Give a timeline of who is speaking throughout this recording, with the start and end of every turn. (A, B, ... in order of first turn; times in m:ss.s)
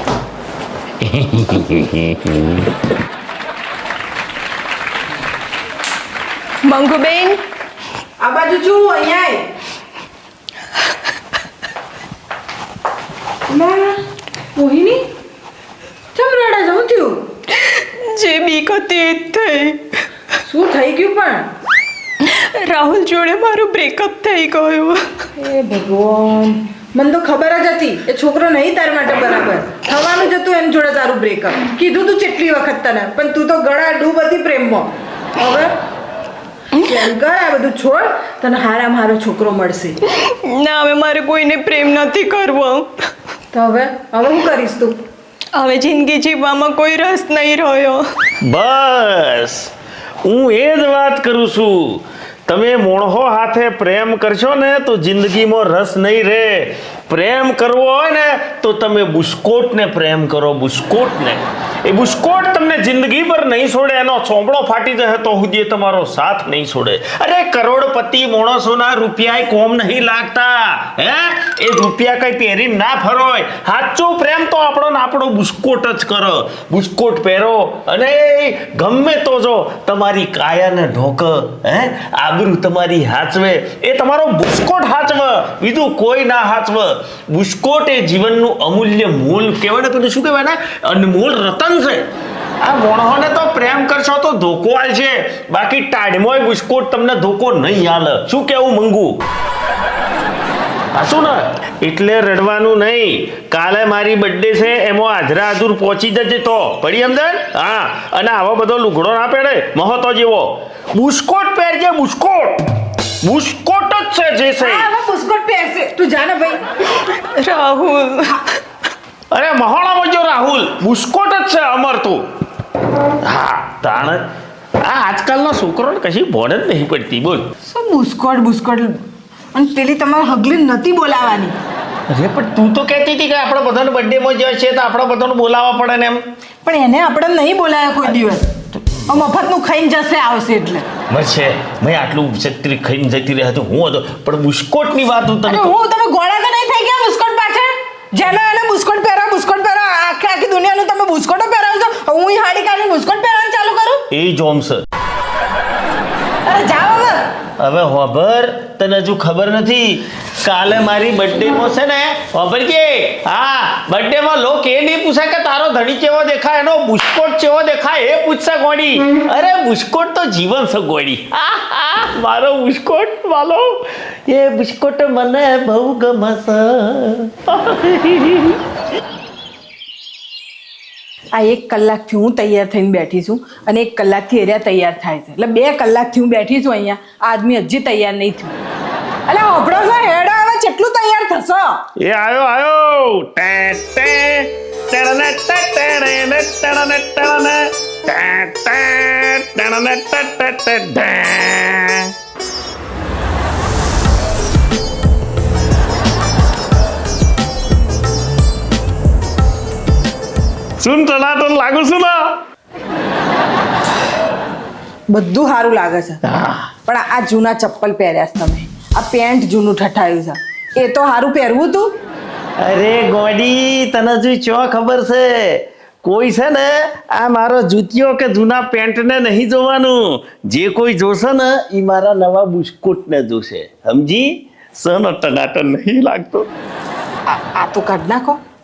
0:01.0-0:02.7 A
0:06.6-0:07.4 B
0:08.2-0:09.5 C
0:13.5-0:14.0 C
0:14.6-0:15.0 C
0:16.2-0:17.3 C
0:17.6-0:20.0 B
0:20.4-0:21.5 C
0:22.2-0:25.1 B
0:25.4-0:35.7 C
0:36.8-0:40.0 C
0:40.1-0:43.1 B
0:43.5-0:45.0 C
0:45.5-0:48.0 B
0:48.5-0:49.7 A
0:50.2-1:32.1 A
1:32.6-1:39.2 A
1:40.9-1:52.7 A
1:53.2-1:54.9 A
1:54.6-1:56.6 C
1:57.4-1:58.6 B
1:59.3-2:02.2 A
2:03.2-2:04.3 A
2:04.8-2:07.5 A
2:07.7-2:09.0 C
2:09.5-2:11.6 C
2:12.1-2:16.2 A
2:16.6-2:18.5 C
2:19.1-2:20.9 C
2:21.1-2:25.7 A
2:25.5-2:34.1 C
2:34.1-2:34.8 A
2:36.5-2:37.3 C
2:37.6-2:58.6 A
3:01.3-3:08.5 C
3:09.3-3:11.8 C
3:12.0-3:22.1 A
3:30.8-3:32.4 A
3:35.1-3:36.2 C
3:36.2-3:36.7 A
3:36.9-3:42.0 C
3:42.6-3:56.5 A
3:57.3-3:58.4 C